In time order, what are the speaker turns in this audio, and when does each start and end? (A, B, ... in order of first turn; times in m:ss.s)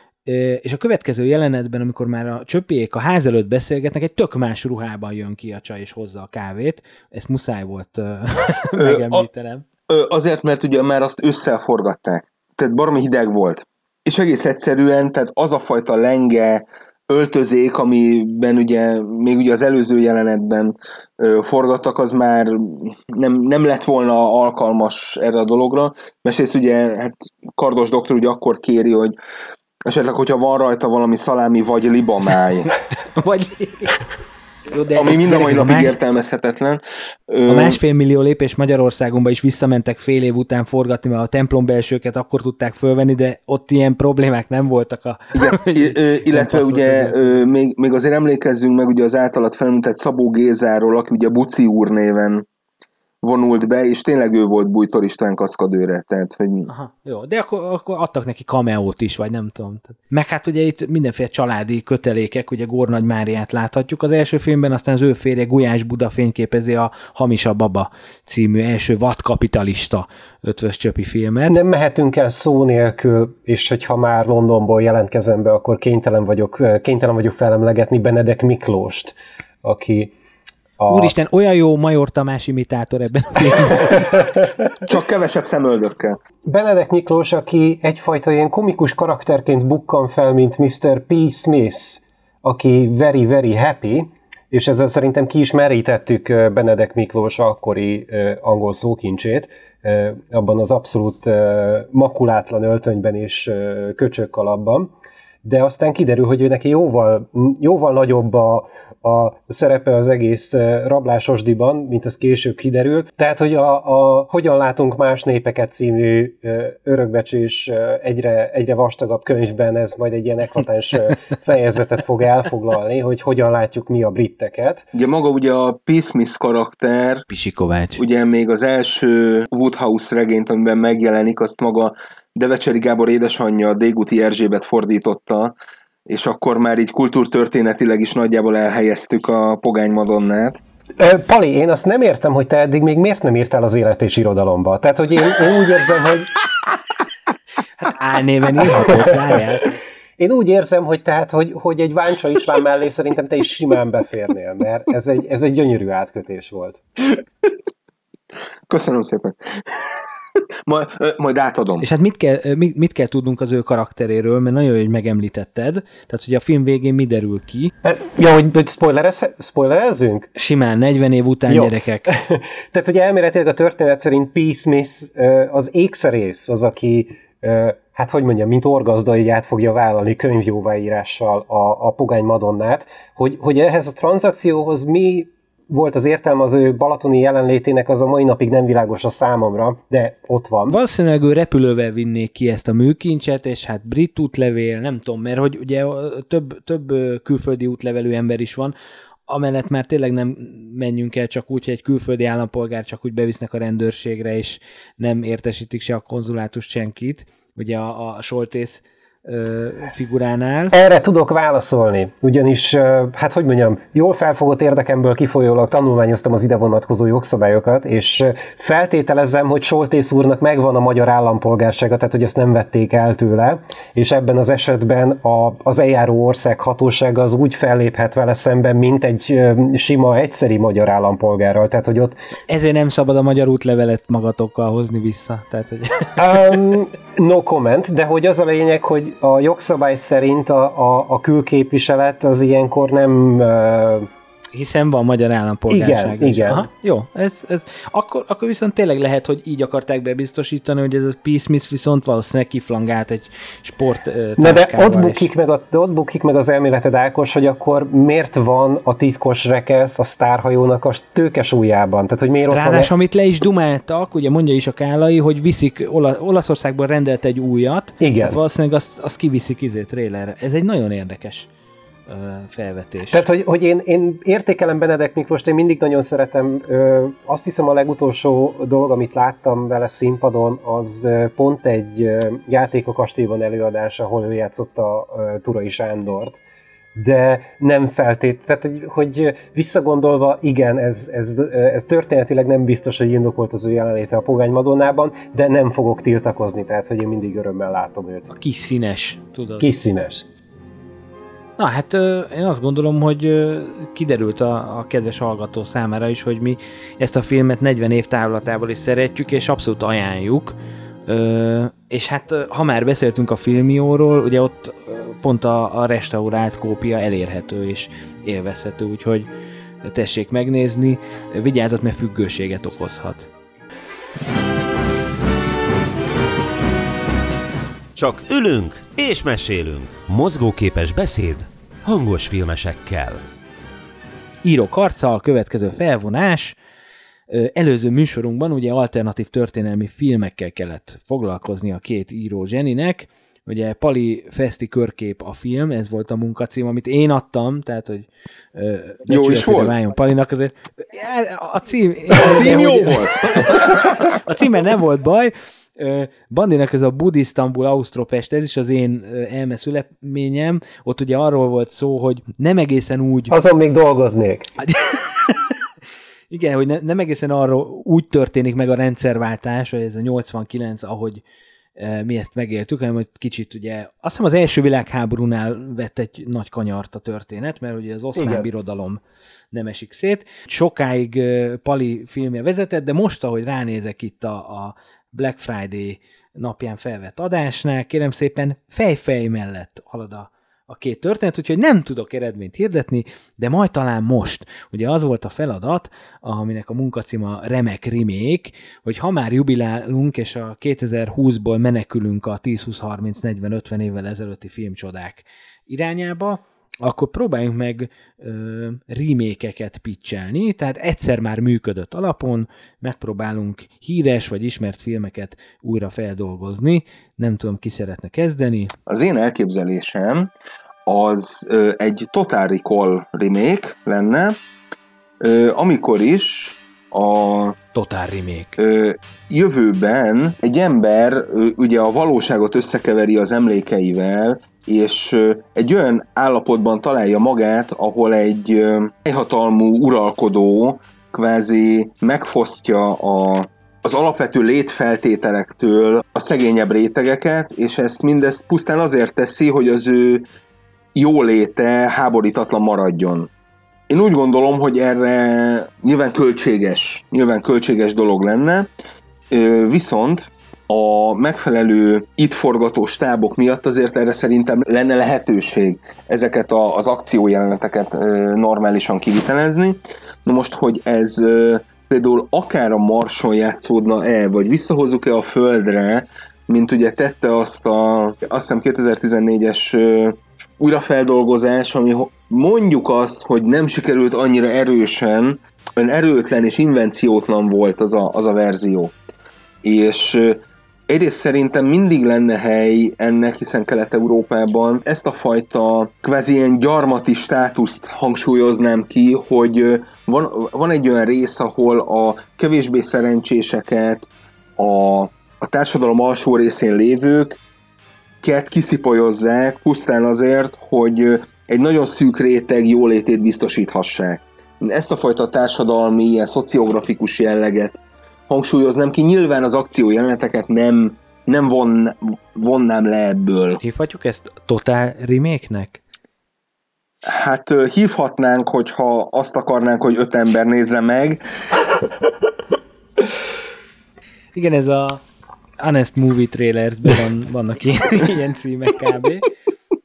0:00.2-0:09.6 A
0:08.8-0:09.2 B
0:09.9-0:29.2 B
0:29.8-0:32.7 B
0:33.0-0:34.0 A
0:34.7-0:36.0 A
0:34.9-0:37.8 B
0:37.5-0:47.4 A
0:45.3-0:52.4 B
0:53.2-0:56.7 B
0:56.6-1:11.6 A
1:11.5-1:20.1 C
1:20.8-1:21.1 C
1:20.9-1:24.1 A
1:24.8-1:26.2 B
1:26.4-1:44.9 C
1:45.4-2:04.8 C
2:04.9-2:07.2 B
2:07.3-2:08.0 A
2:08.0-2:15.5 B
2:16.1-2:20.6 B
2:21.0-2:26.3 C
2:27.8-2:29.7 A
2:30.2-2:36.8 C
2:38.7-2:40.0 B
2:40.6-2:41.8 B
2:41.8-2:47.7 A
2:47.8-2:50.3 C
2:50.4-2:52.1 A
2:51.5-3:10.8 C
3:10.7-3:18.7 A
3:19.3-3:30.7 A
3:30.7-3:52.2 C
3:52.5-3:56.2 A
3:56.2-4:04.1 C
4:04.5-4:15.3 A
4:05.7-4:06.7 C
4:14.4-4:22.9 C
4:22.5-4:31.5 A
4:28.0-4:28.4 C
4:32.1-4:33.2 A
4:33.1-4:46.4 C
4:46.9-4:58.3 C
4:58.3-4:59.7 A
4:59.6-5:00.3 C
5:01.6-5:10.6 A
5:11.1-5:19.3 A
5:19.8-5:23.3 A
5:27.9-5:33.2 D
5:34.4-5:36.6 A
5:37.3-6:03.3 A
5:49.1-5:49.8 B
5:52.2-5:54.0 B
6:03.3-6:04.5 C
6:04.6-6:05.5 A
6:06.3-6:11.2 A
6:11.8-6:19.0 A
6:18.1-6:18.5 C
6:19.5-6:58.7 A
6:58.9-7:00.3 B
7:00.9-7:04.4 B
7:05.2-7:07.6 B
7:07.7-7:08.6 A
7:08.6-7:30.3 B
7:30.9-7:33.3 B
7:33.9-7:38.7 B
7:39.3-8:08.9 B
8:09.6-8:27.4 B
8:28.2-8:43.6 B
8:43.6-8:45.8 A
8:47.0-8:51.2 B
8:54.3-8:55.0 A
8:55.6-8:59.3 A